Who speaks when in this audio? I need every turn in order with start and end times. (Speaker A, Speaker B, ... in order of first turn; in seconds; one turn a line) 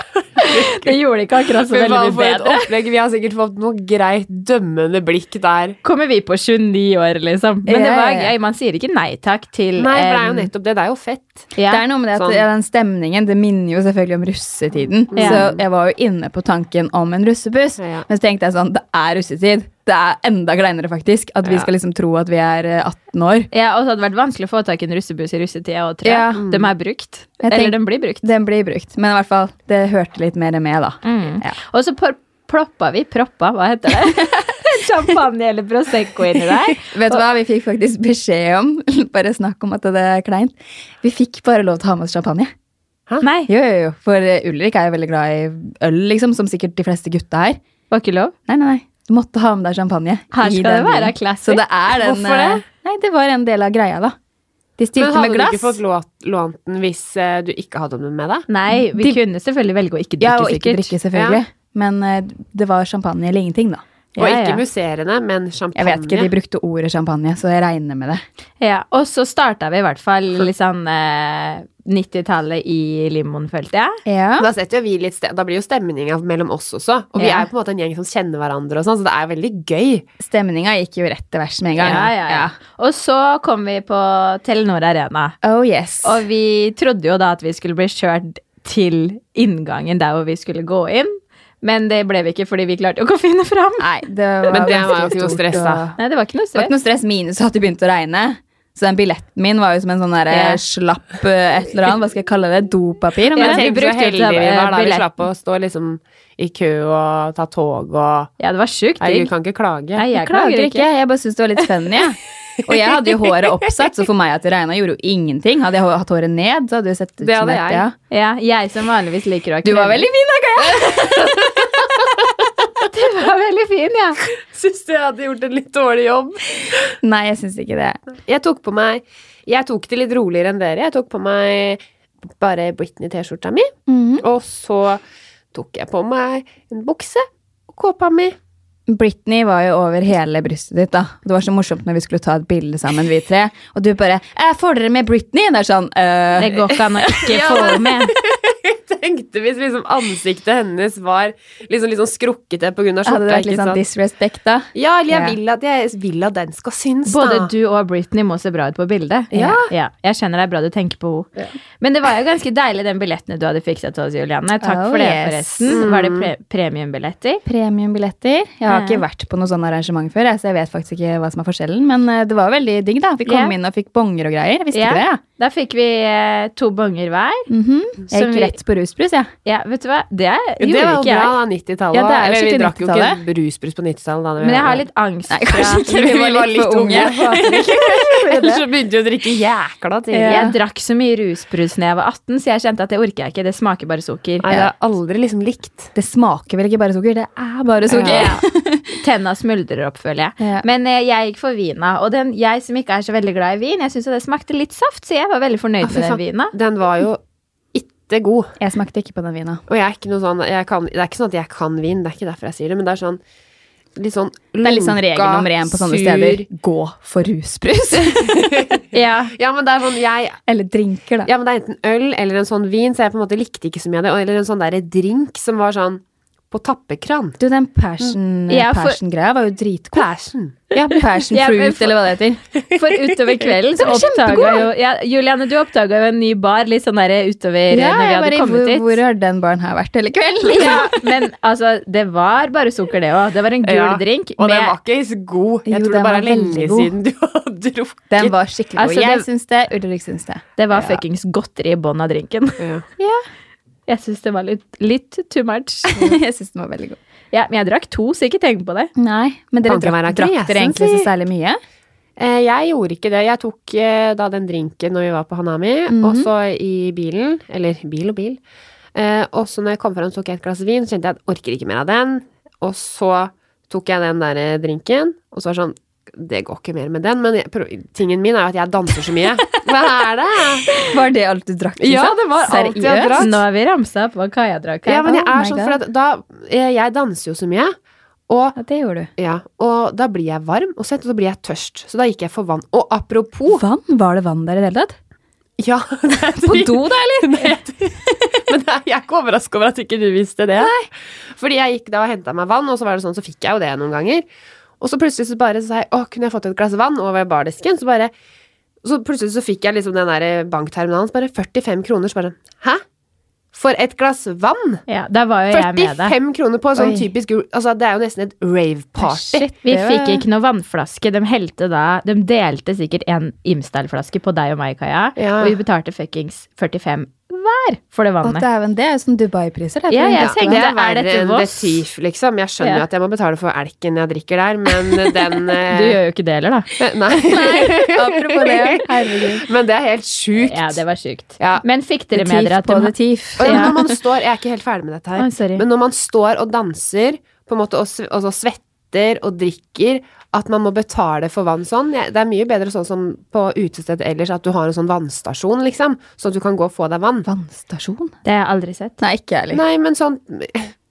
Speaker A: 0.4-2.7
Speaker B: 0.4-0.9
Speaker B: 1.6-5.8
Speaker A: 5.8-10.5
Speaker C: 7.7-8.3
Speaker B: 9.8-11.5
Speaker A: 11.6-11.8
Speaker C: 11.7-23.5
Speaker B: 12.1-12.4
Speaker B: 15.1-15.6
Speaker A: 15.2-15.4
Speaker B: 17.8-18.1
Speaker A: 23.5-28.3
Speaker C: 26.0-26.4
Speaker B: 26.4-26.7
Speaker C: 27.4-31.6
Speaker A: 31.0-37.2
Speaker C: 36.8-42.5
Speaker A: 43.2-43.5
Speaker C: 43.5-47.6
Speaker A: 47.9-48.3
Speaker C: 48.5-54.1
Speaker A: 50.3-51.6
Speaker B: 52.0-52.6
Speaker C: 54.8-55.8
Speaker B: 55.0-58.5
Speaker A: 58.5-60.9
Speaker C: 58.7-59.2
Speaker C: 60.2-63.8
Speaker B: 61.1-61.4
Speaker A: 64.2-64.6
Speaker B: 64.2-66.3
Speaker C: 65.7-68.2
Speaker A: 68.6-74.0
Speaker C: 74.0-74.5
Speaker B: 74.4-80.0
Speaker C: 77.2-77.5
Speaker C: 80.2-82.5
Speaker A: 81.8-85.3
Speaker C: 85.4-86.2
Speaker A: 86.0-93.9
Speaker C: 93.8-96.0
Speaker B: 94.5-95.8
Speaker A: 96.0-96.7
Speaker C: 96.5-103.7
Speaker A: 100.3-100.6
Speaker A: 103.3-105.1
Speaker B: 103.3-108.3
Speaker A: 108.4-109.3
Speaker B: 109.0-110.0
Speaker A: 110.0-110.9
Speaker C: 110.1-117.9
Speaker B: 112.7-113.5
Speaker B: 117.2-117.8
Speaker A: 118.1-120.1
Speaker C: 119.6-121.9
Speaker B: 121.0-122.2
Speaker A: 122.9-124.2
Speaker B: 124.4-126.9
Speaker C: 127.0-128.0
Speaker B: 128.3-131.8
Speaker B: 132.4-135.0
Speaker C: 133.9-134.2
Speaker B: 135.5-138.3
Speaker C: 138.9-146.8
Speaker A: 146.4-148.1
Speaker B: 147.1-153.8
Speaker C: 153.0-155.3
Speaker B: 154.7-157.5
Speaker A: 157.1-161.3
Speaker C: 159.3-159.6
Speaker B: 159.3-159.7
Speaker A: 161.8-167.4
Speaker C: 164.6-165.8
Speaker B: 165.7-166.3
Speaker C: 167.4-175.2
Speaker A: 168.7-169.0
Speaker A: 173.2-173.5
Speaker A: 174.7-177.5
Speaker C: 177.5-179.3
Speaker A: 178.1-178.6
Speaker A: 179.4-181.4
Speaker B: 180.6-184.8
Speaker C: 181.9-183.2
Speaker A: 184.4-185.8
Speaker C: 185.3-187.4
Speaker B: 185.8-190.5
Speaker A: 186.9-188.6
Speaker C: 190.1-190.6
Speaker A: 190.2-194.4
Speaker B: 194.4-195.9
Speaker C: 195.9-199.0
Speaker B: 197.9-198.3
Speaker A: 198.0-198.4
Speaker A: 199.0-206.5
Speaker C: 200.4-200.7
Speaker B: 205.8-207.2
Speaker B: 207.7-208.5
Speaker C: 208.6-209.6
Speaker B: 209.7-213.2
Speaker B: 213.9-216.4
Speaker C: 214.6-218.5
Speaker B: 218.0-220.4
Speaker A: 218.9-219.3
Speaker C: 220.5-221.3
Speaker B: 221.2-227.4
Speaker C: 227.4-230.1
Speaker A: 228.5-229.0
Speaker B: 229.9-230.8
Speaker C: 230.7-232.4
Speaker A: 231.3-232.0
Speaker A: 232.7-239.0
Speaker C: 233.8-234.7
Speaker C: 237.7-240.9
Speaker A: 240.4-244.7
Speaker B: 243.6-248.3
Speaker C: 245.7-246.9
Speaker C: 248.1-250.4
Speaker A: 248.8-249.2
Speaker A: 250.6-252.6
Speaker B: 250.7-251.0
Speaker B: 252.6-252.8
Speaker A: 253.9-256.0
Speaker C: 255.9-257.0
Speaker A: 257.3-258.9
Speaker C: 258.9-261.6
Speaker B: 259.7-261.1
Speaker B: 262.2-268.4
Speaker C: 265.9-266.3
Speaker B: 268.9-280.8
Speaker C: 280.8-283.3
Speaker B: 281.8-283.4
Speaker A: 283.2-285.2
Speaker B: 284.9-287.7
Speaker C: 285.1-285.8
Speaker B: 288.3-288.6
Speaker C: 288.6-289.1
Speaker B: 289.2-293.6
Speaker C: 293.5-294.9
Speaker B: 295.6-304.2
Speaker C: 296.4-297.6
Speaker C: 300.6-300.9
Speaker B: 304.8-308.1
Speaker B: 308.8-312.8
Speaker B: 313.5-314.8
Speaker A: 314.9-316.1
Speaker B: 315.5-319.5
Speaker C: 316.8-317.1
Speaker C: 319.0-320.2
Speaker A: 319.6-328.4
Speaker B: 325.2-325.6
Speaker C: 328.2-330.6
Speaker A: 329.9-331.8
Speaker B: 330.2-336.0
Speaker A: 335.7-336.7
Speaker B: 336.8-340.8
Speaker C: 337.3-339.4
Speaker A: 340.4-343.7
Speaker B: 341.4-341.6
Speaker C: 342.1-344.0
Speaker B: 343.4-357.3
Speaker A: 345.2-345.6
Speaker C: 357.2-358.1
Speaker A: 358.2-359.0
Speaker C: 359.0-359.6
Speaker B: 359.5-360.7